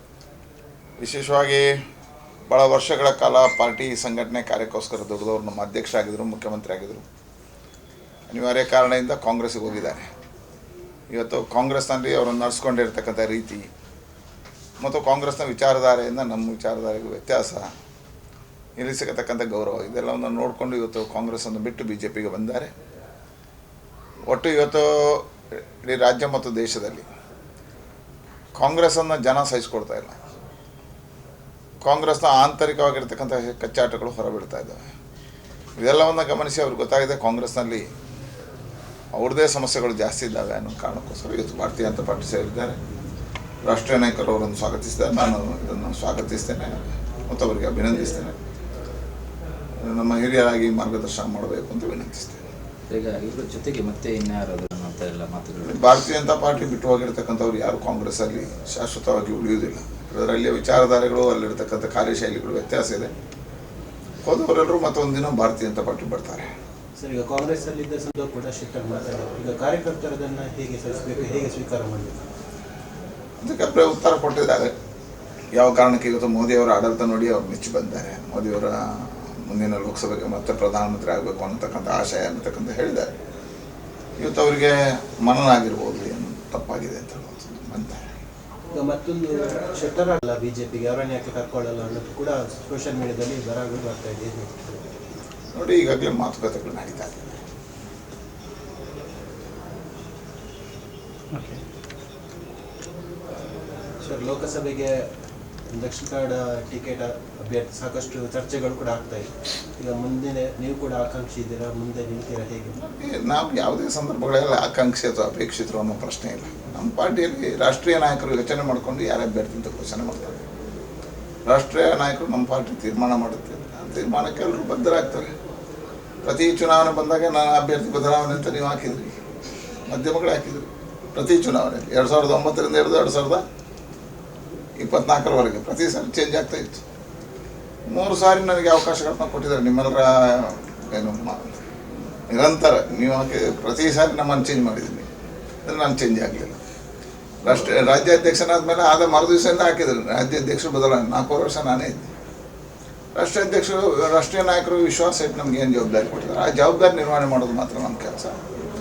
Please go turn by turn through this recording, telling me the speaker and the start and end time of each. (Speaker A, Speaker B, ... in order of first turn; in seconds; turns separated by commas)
Speaker A: 1.0-1.7, Speaker A: 2.5-7.0, Speaker A: 8.3-10.1, Speaker A: 11.1-13.7, Speaker A: 14.8-17.7, Speaker A: 18.8-22.7, Speaker A: 24.3-25.3, Speaker A: 25.8-27.0, Speaker A: 28.6-30.2, Speaker A: 31.8-34.8, Speaker A: 35.8-37.9, Speaker A: 39.1-42.8, Speaker A: 43.6-48.4, Speaker A: 49.8-52.4, Speaker B: 52.9-56.0, Speaker A: 55.6-63.1, Speaker A: 64.2-66.5, Speaker C: 67.0-72.2, Speaker A: 73.4-74.7, Speaker A: 75.5-83.1, Speaker A: 84.2-88.1, Speaker C: 88.7-94.8, Speaker A: 95.5-97.4, Speaker C: 104.0-105.1, Speaker C: 105.7-112.8, Speaker A: 112.8-120.4, Speaker A: 121.5-125.3, Speaker A: 126.2-129.1, Speaker A: 129.9-133.4, Speaker A: 134.8-136.8, Speaker A: 137.9-141.6, Speaker A: 142.3-145.1, Speaker A: 145.6-146.6, Speaker A: 147.4-152.1, Speaker A: 153.1-158.3